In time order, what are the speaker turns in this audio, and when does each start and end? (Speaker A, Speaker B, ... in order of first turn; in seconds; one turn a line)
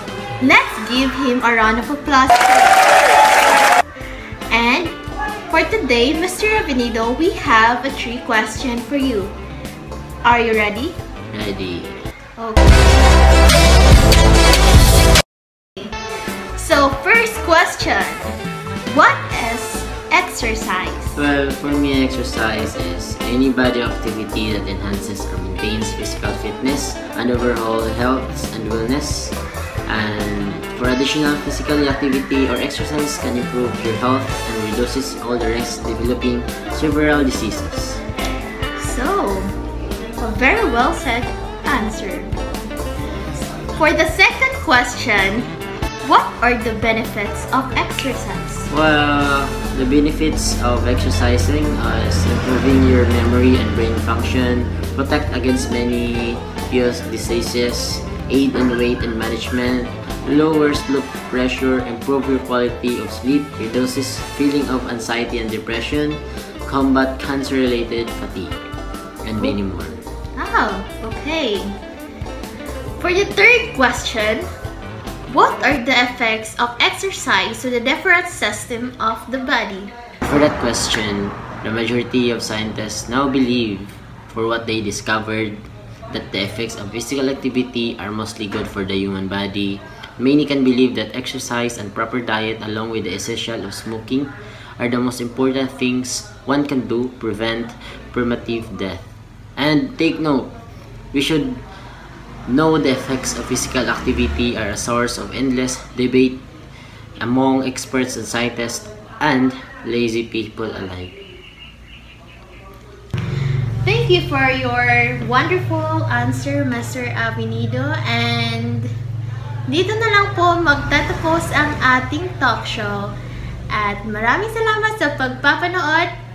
Speaker A: 0.4-3.0
Speaker A: 4.5-9.4
Speaker A: 10.2-11.0
Speaker B: 11.3-12.0
Speaker A: 12.4-12.8
Speaker A: 16.6-18.3
Speaker A: 18.9-21.2
Speaker B: 21.1-38.0
Speaker A: 38.8-39.5
Speaker A: 40.2-42.4
Speaker A: 43.7-45.5
Speaker A: 46.0-48.7
Speaker B: 48.7-68.6
Speaker B: 69.2-70.0
Speaker A: 70.4-71.8
Speaker A: 73.0-74.5
Speaker A: 75.3-79.9
Speaker B: 80.2-100.5
Speaker B: 101.1-101.6
Speaker B: 102.5-106.4
Speaker B: 107.2-111.2
Speaker A: 113.8-118.9
Speaker A: 119.7-123.1
Speaker A: 123.7-126.1